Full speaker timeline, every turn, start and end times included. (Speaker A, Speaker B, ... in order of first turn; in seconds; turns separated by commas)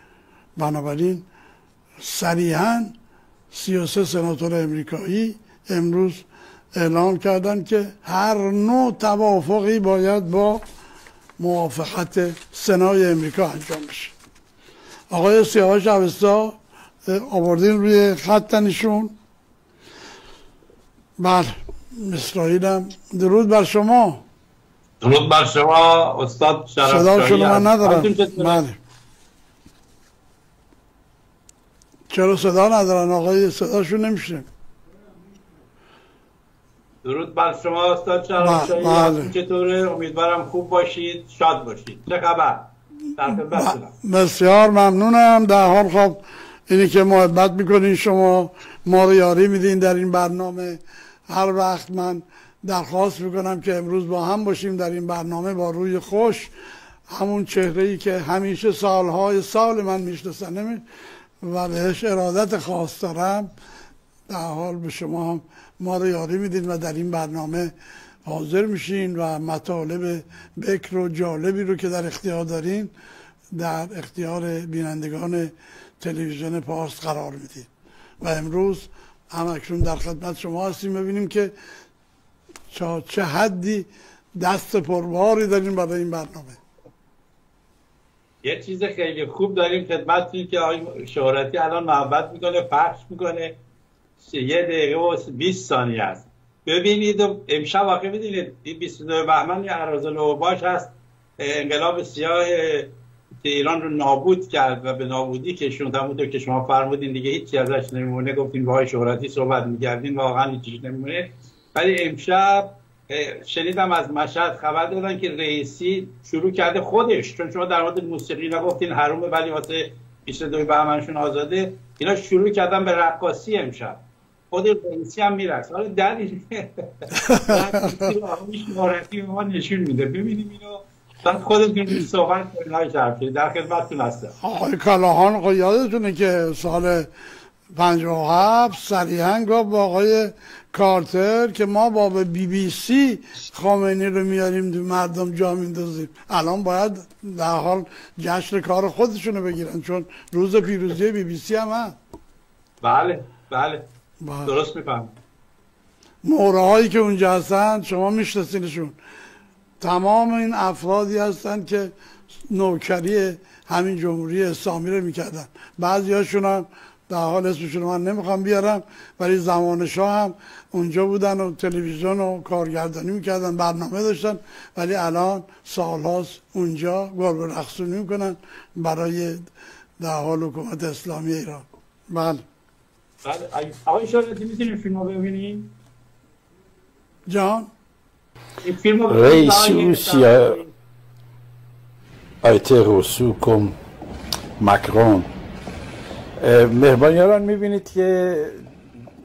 Speaker A: 0.6-1.3, Speaker A: 2.0-3.0, Speaker A: 3.5-10.6, Speaker A: 11.4-14.1, Speaker A: 15.1-19.1, Speaker A: 21.2-24.2, Speaker B: 25.0-28.6, Speaker A: 26.8-28.8, Speaker A: 32.1-34.5, Speaker B: 37.0-43.9, Speaker A: 38.4-39.3, Speaker A: 43.2-56.5, Speaker A: 57.1-60.8, Speaker A: 61.4-63.5, Speaker A: 64.3-67.7, Speaker A: 68.2-72.9, Speaker A: 73.5-77.7, Speaker A: 78.2-81.5, Speaker A: 82.7-86.6, Speaker B: 88.4-93.6, Speaker B: 94.2-124.0, Speaker B: 124.5-134.3, Speaker A: 127.2-128.1, Speaker A: 134.4-137.1, Speaker A: 137.7-152.0, Speaker B: 152.8-153.9, Speaker A: 154.2-154.5, Speaker B: 154.4-155.1, Speaker A: 156.2-159.0, Speaker A: 159.8-161.9, Speaker A: 162.5-179.4, Speaker A: 180.0-182.4, Speaker B: 183.2-185.7, Speaker A: 187.3-187.7, Speaker B: 188.6-190.7, Speaker C: 189.1-190.6, Speaker C: 192.4-193.8, Speaker C: 194.6-195.3, Speaker C: 196.4-198.7